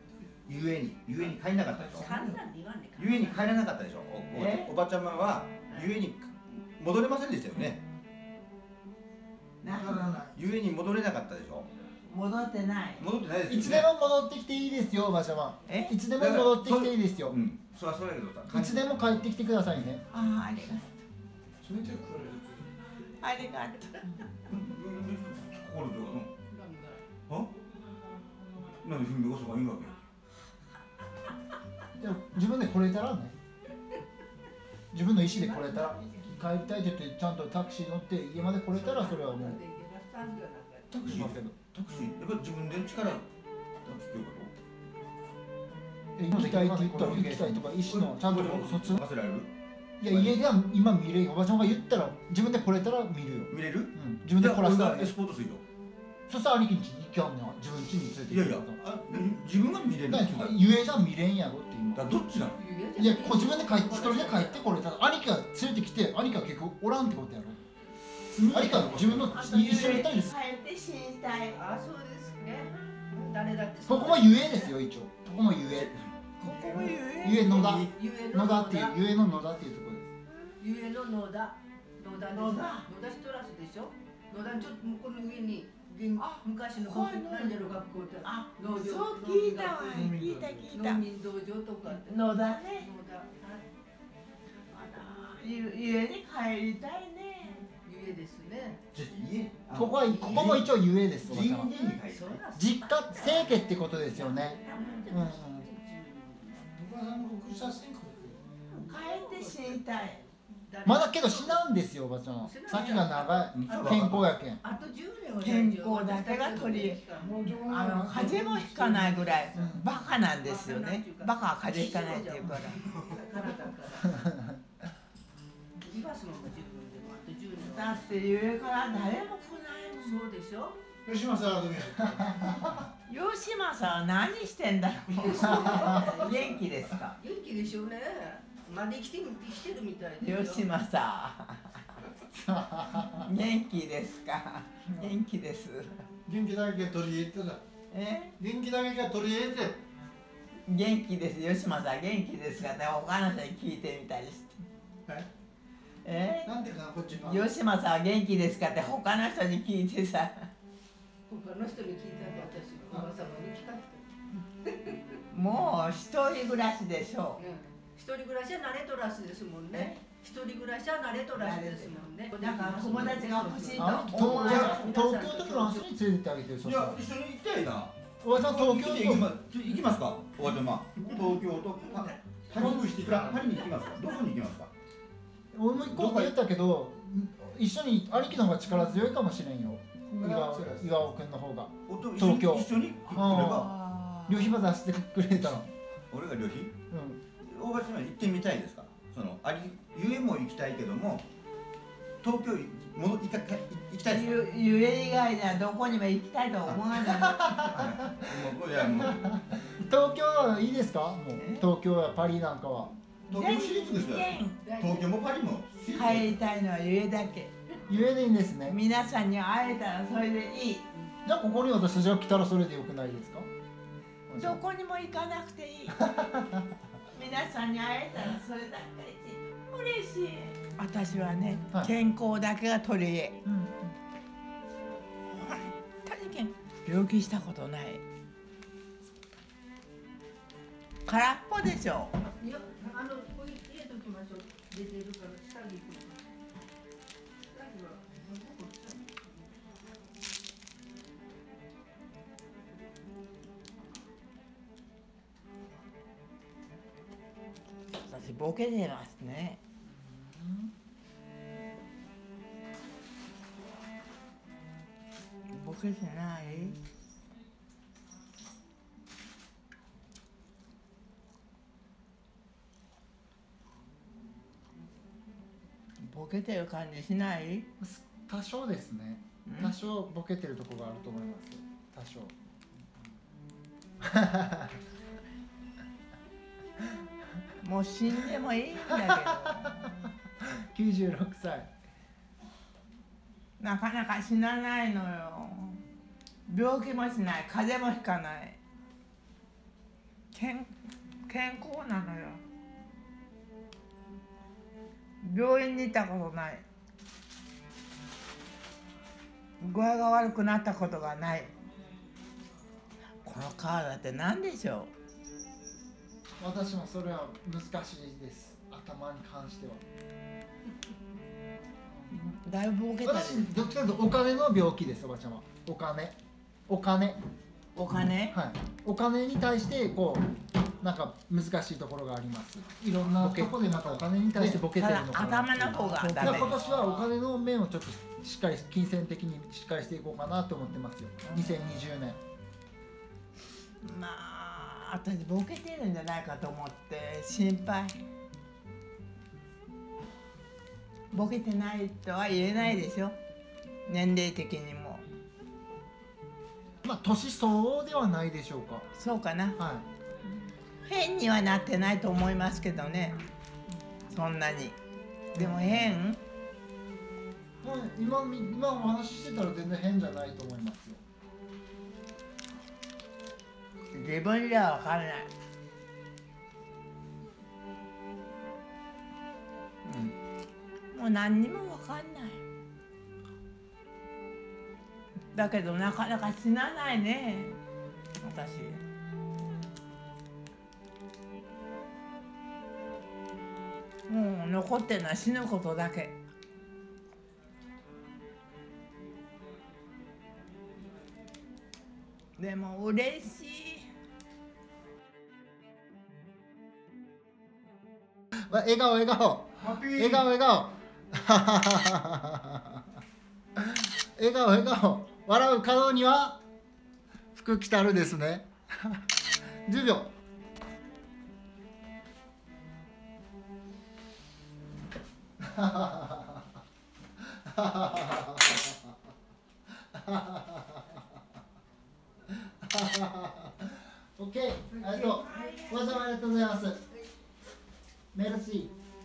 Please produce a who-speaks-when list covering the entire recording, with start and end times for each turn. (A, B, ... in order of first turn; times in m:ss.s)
0:00.4-0:02.1 A
0:01.9-0:03.6 B
0:02.1-0:02.3 C
0:03.0-0:07.8 A
0:04.3-0:04.7 D
0:09.6-0:10.2 D
0:09.7-0:10.4 C
0:09.8-0:11.7 A
0:12.1-0:13.0 D
0:13.0-0:13.9 A
0:13.5-0:17.4 E
0:15.7-0:16.0 D
0:16.2-0:19.0 A
0:18.5-0:20.0 E
0:20.1-0:20.9 D
0:21.6-0:22.7 C
0:23.2-0:24.2 D
0:24.5-0:26.3 A
0:26.5-0:27.0 B
0:27.3-0:27.5 A
0:28.8-0:30.0 A
0:32.0-0:33.3 E
0:34.9-0:39.6 E
0:35.3-0:36.3 B
0:38.7-0:41.0 B
0:40.9-0:41.6 E
0:40.9-0:43.2 A
0:43.8-0:44.5 A
0:46.2-0:49.0 E
0:46.3-0:49.5 A
0:50.0-0:55.1 E
0:50.1-0:50.4 A
0:53.5-0:55.6 A
0:56.3-0:58.8 E
0:58.3-1:00.6 A
1:00.0-1:02.2 E
1:01.9-1:02.6 A
1:02.5-1:04.7 B
1:03.0-1:07.6 E
1:08.3-1:10.3 E
1:08.4-1:10.1 A
1:09.3-1:11.6 D
1:11.5-1:14.7 B
1:13.9-1:15.9 E
1:15.3-1:17.8 A
1:16.4-1:17.9 D
1:17.2-1:20.1 E
1:17.5-1:19.0 B
1:20.3-1:20.5 D
1:20.6-1:33.6 B
1:22.2-1:22.9 D
1:26.2-1:31.0 D
1:30.0-1:30.5 E
1:30.0-1:30.5 C
1:31.9-1:32.9 D
1:34.7-1:37.7 D
1:37.8-1:38.8 B
1:38.9-1:42.4 A
1:39.7-1:41.8 E
1:39.9-1:40.6 B
1:41.8-1:46.6 B
1:42.5-1:44.6 E
1:44.6-1:45.0 D
1:45.1-1:45.7 E
1:46.7-1:48.4 C
1:48.7-1:50.2 D
1:48.7-1:51.7 B
1:50.8-1:54.6 E
1:52.4-1:57.6 B
1:53.5-1:54.3 A
1:55.4-1:57.0 D
1:57.2-1:59.5 C
1:57.7-2:02.9 D
1:59.5-1:59.9 E
2:00.2-2:04.2 B
2:04.1-2:04.6 E
2:05.8-2:08.2 B
2:07.5-2:10.2 D
2:10.0-2:10.8 B
2:11.1-2:12.8 C
2:13.0-2:17.2 D
2:15.1-2:20.7 B
2:20.2-2:21.8 D
2:22.3-2:23.3 E
2:23.1-2:26.0 D
2:26.3-2:27.6 C
2:27.9-2:28.3 D
2:28.4-2:29.8 C
2:30.7-2:34.6 D
2:36.0-2:36.6 D
2:36.4-2:37.5 C
2:37.1-2:40.5 D
2:41.3-2:44.1 B
2:44.6-2:45.2 B
2:45.3-2:47.4 D
2:47.4-2:55.8 B
2:49.7-2:50.1 D
2:51.3-2:54.7 D
2:53.8-2:57.0 E
2:54.3-2:55.0 A
2:56.6-3:04.7 A
2:58.2-2:59.3 E
3:02.6-3:03.4 C
3:05.5-3:15.7 E
3:05.8-3:06.3 A
3:10.1-3:10.9 C
3:11.9-3:14.4 A
3:16.1-3:16.7 A
3:16.9-3:17.2 E
3:17.4-3:21.2 A
3:22.2-3:24.4 A
3:24.0-3:27.7 D
3:26.7-3:27.0 A
3:27.1-3:32.9 E
3:27.6-3:29.4 A
3:31.4-3:31.6 D
3:33.3-3:36.4 A
3:33.3-3:34.7 D
3:34.6-3:35.1 B
3:35.9-3:37.5 D
3:37.9-3:38.8 E
3:38.6-3:40.9 D
3:41.2-3:43.5 E
3:44.3-3:44.6 E
3:44.4-3:46.0 D
3:45.9-3:46.6 E
3:47.1-3:53.4 D
3:53.4-3:53.9 E
3:55.3-3:58.0 D
4:01.0-4:02.1 D
4:02.2-4:06.3 B
4:07.5-4:09.6 B
4:18.0-4:19.6 D
4:25.5-4:26.8 D
4:36.0-4:37.7 D
4:37.8-4:42.3 E
4:39.4-4:39.7 D
4:44.0-4:44.8 E
4:47.6-4:50.1 D
4:48.9-4:49.8 E
4:50.4-4:51.7 E
4:53.6-4:55.8 D
4:56.5-4:58.6 D
5:00.3-5:00.7 D
5:01.3-5:02.4 D
5:05.2-5:06.6 D
5:09.6-5:11.5 D
5:13.2-5:14.9 D
5:16.4-5:19.8 E
5:22.1-5:23.5 D
5:23.0-5:26.2 E
5:26.7-5:27.2 E
5:27.7-5:28.4 D
5:28.3-5:30.2 E
5:30.8-5:42.2 E
5:33.2-5:36.6 D
5:36.6-5:36.9 B
5:41.2-5:41.8 D
5:43.8-5:48.0 D
5:51.1-5:53.2 D
5:53.8-5:55.0 D
5:56.8-5:58.9 E
5:58.9-5:59.6 D
5:59.6-5:59.9 E
6:00.8-6:03.2 D
6:04.1-6:04.8 D
6:05.3-6:06.0 E
6:05.3-6:06.2 D
6:07.6-6:11.0 E
6:13.9-6:15.3 D
6:19.8-6:20.1 E
6:20.9-6:22.4 D
6:25.3-6:27.6 D
6:28.2-6:28.8 D
6:34.1-6:36.2 D
6:42.4-6:43.9 D
6:48.5-6:52.8 E
6:53.6-6:56.4 E
6:57.3-6:59.0 E
6:59.6-7:00.1 E
7:05.4-7:06.5 E
7:07.2-7:08.8 E
7:09.9-7:10.9 E
7:12.3-7:16.8 E
7:14.7-7:15.6 B
7:15.0-7:16.3 D
7:18.1-7:18.7 E